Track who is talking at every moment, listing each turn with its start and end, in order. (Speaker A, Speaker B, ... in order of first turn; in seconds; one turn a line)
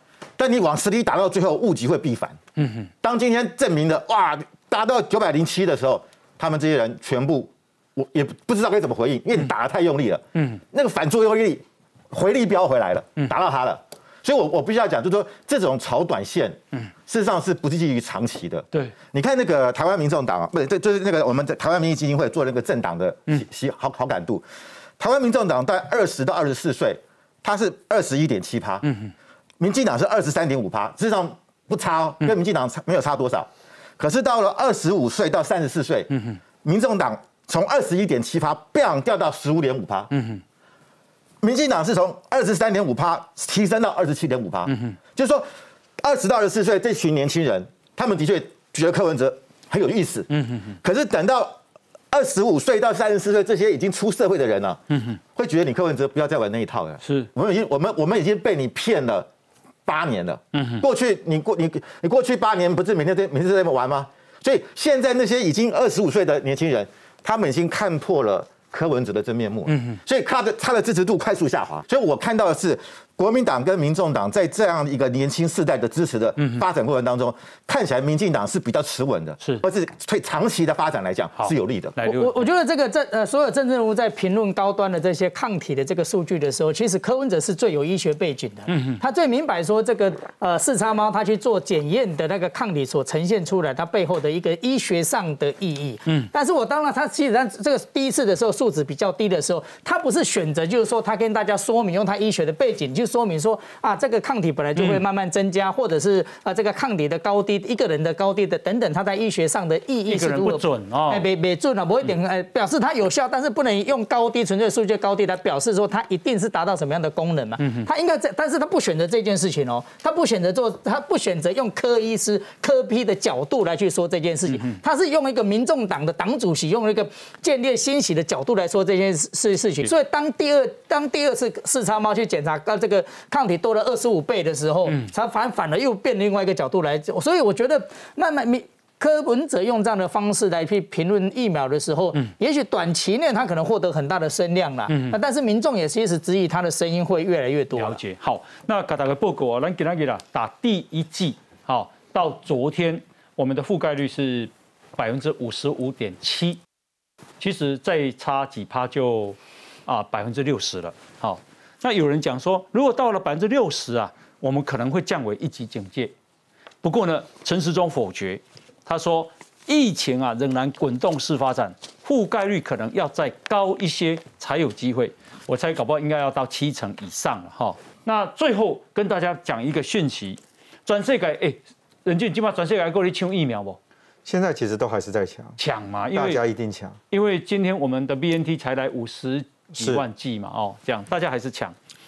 Speaker A: 0.4-2.4
Speaker B: 2.6-2.9
Speaker A: 3.0-24.4
Speaker B: 10.3-10.6
Speaker A: 25.0-28.8
Speaker B: 28.8-29.1
Speaker A: 29.6-36.1
Speaker A: 36.6-40.1
Speaker B: 40.1-40.4
Speaker A: 41.4-45.5
Speaker B: 44.7-45.0
Speaker A: 46.0-50.3
Speaker B: 50.3-50.8
Speaker A: 50.8-51.6
Speaker A: 52.1-54.8
Speaker B: 54.9-55.2
Speaker A: 55.3-59.3
Speaker B: 57.0-57.3
Speaker A: 59.9-82.0
Speaker B: 60.5-60.8
Speaker B: 69.7-70.0
Speaker B: 76.4-76.6
Speaker B: 81.4-82.4
Speaker C: 82.0-148.0
Speaker B: 88.7-89.0
Speaker B: 104.7-105.0
Speaker B: 110.1-111.2
Speaker B: 117.6-117.9
Speaker B: 124.5-124.8
Speaker B: 134.8-135.1
Speaker B: 144.9-145.2
Speaker B: 147.8-156.6
Speaker B: 157.4-166.1
Speaker B: 166.8-183.8
Speaker D: 184.2-185.6
Speaker B: 185.6-186.4
Speaker D: 186.1-187.0
Speaker B: 187.1-191.7
Speaker D: 189.8-190.0